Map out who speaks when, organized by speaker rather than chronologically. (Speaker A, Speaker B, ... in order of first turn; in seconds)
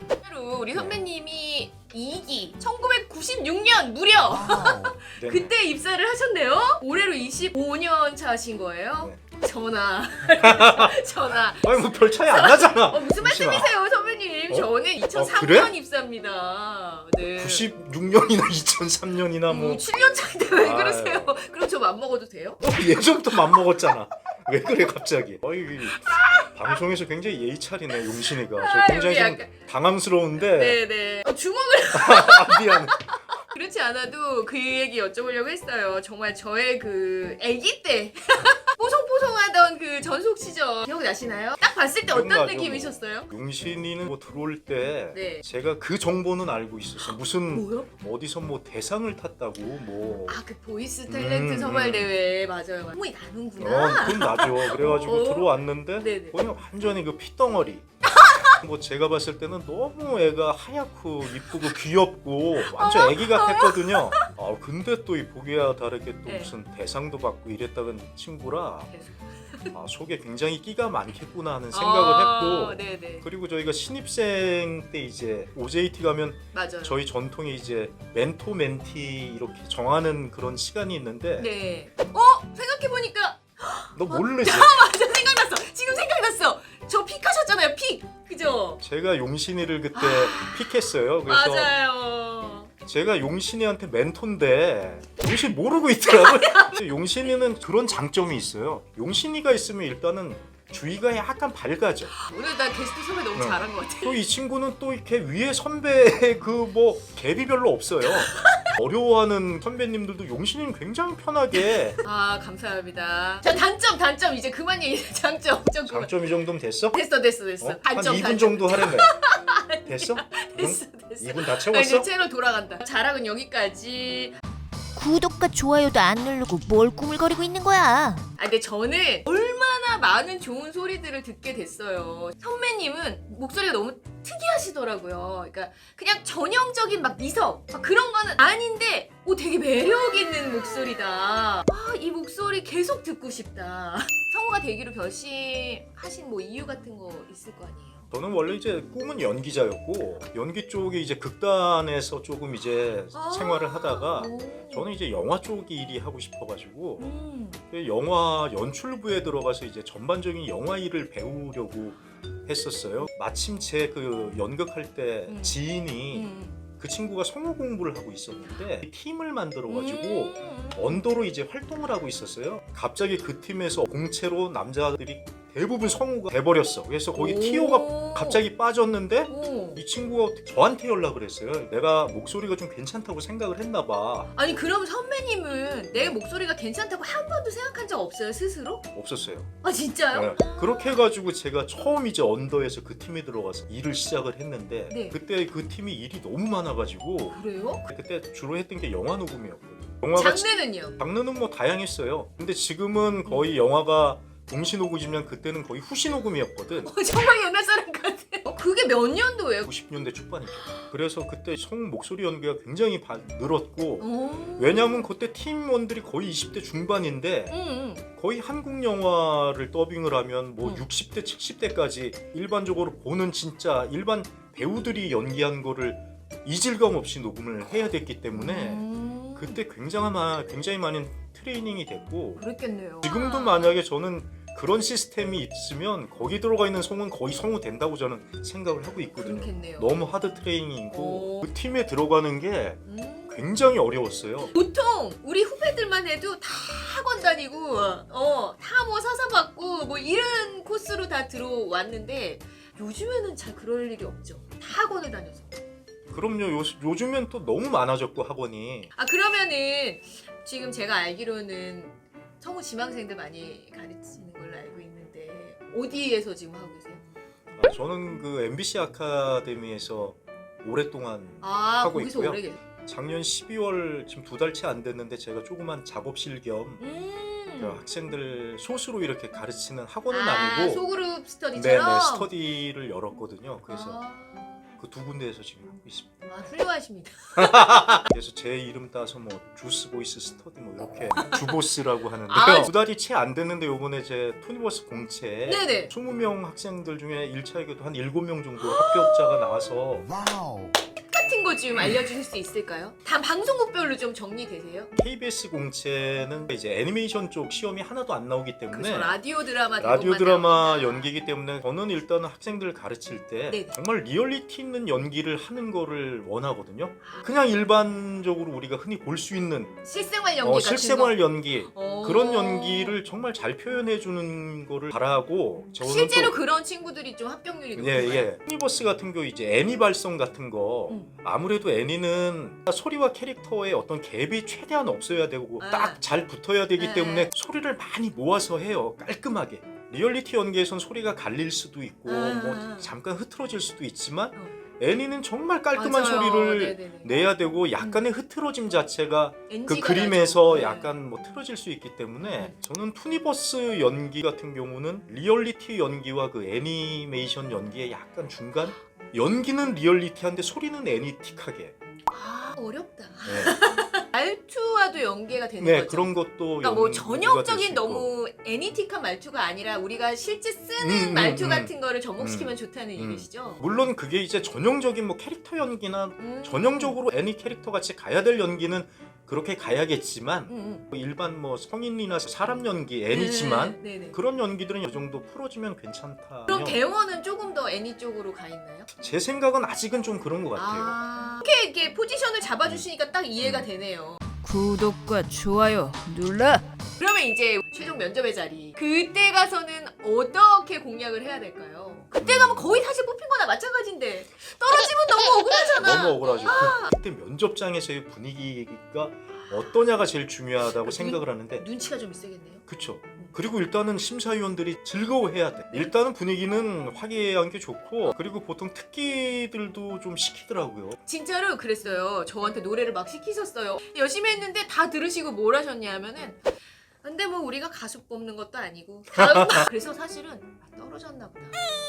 Speaker A: 0.1-17.7, 19.5-22.6, 25.9-26.6, 28.5-29.6, 30.4-43.3, 45.1-45.4, 47.0-47.9, 50.2-56.4, 58.1-58.5, 62.6-64.3, 66.3-66.5, 68.9-69.7, 71.7-73.3, 76.5-77.0, 81.4-88.8, 89.9-90.7, 91.3-92.7, 96.1-96.8, 102.2-104.2, 108.3-108.7, 112.0-116.1, 116.9-124.4, 128.4-148.1, 153.1-154.9, 157.0-157.6, 165.3-166.6, 169.7-171.0, 177.2-178.4, 179.3-179.8, 184.3-188.8, 189.6-191.0, 194.9-195.2, 197.3-197.8, 200.1-201.0, 206.8-209.7, 214.0-215.1, 217.5-218.0, 228.3-229.6, 232.4-233.8, 239.2-239.9, 240.9-241.5, 242.9-243.4, 244.5-255.5, 259.0-267.0, 271.4-272.6, 276.8-277.8, 280.1-282.3, 283.7-284.7, 286.3-288.1, 292.3-292.7, 295.5-295.9, 298.6-299.4, 301.1-304.9, 308.7-311.1, 313.5-313.8, 319.8-323.0, 325.8-328.3, 335.6-336.0, 336.8-337.3, 342.1-342.9, 345.8-347.1, 347.8-348.1, 349.5-350.9, 362.1-373.6, 376.2-377.0, 380.5-380.8, 383.1-384.2, 386.5-388.9, 390.6-406.9, 410.8-412.6, 421.1-426.4, 427.0-431.6
Speaker B: 0.7-1.0, 5.2-5.5, 10.4-11.0, 11.6-13.7, 14.5-15.7, 17.4-19.8, 20.5-21.4, 22.6-30.8, 31.9-33.0, 42.1-50.4, 51.1-52.1, 53.6-57.9, 58.4-68.9, 69.7-81.5, 84.0-84.9, 88.8-91.7, 92.9-102.2, 103.3-112.0, 115.9-117.0, 117.6-119.1, 119.9-122.1, 148.1-157.1, 157.7-184.3, 188.9-189.5, 190.1-200.5, 201.0-206.9, 209.7-217.5, 218.2-232.4, 233.0-244.5, 256.1-258.9, 267.6-276.8, 277.6-280.9, 281.5-284.0, 284.8-286.3, 287.4-300.3, 305.0-309.2, 309.8-319.8, 320.4-326.4, 327.8-361.7, 363.3-363.6, 365.6-368.1, 370.8-386.8, 389.0-391.0, 393.4-393.7, 402.2-402.9, 405.8-411.7, 412.7-421.0, 429.2-429.7
Speaker C: 125.0-128.2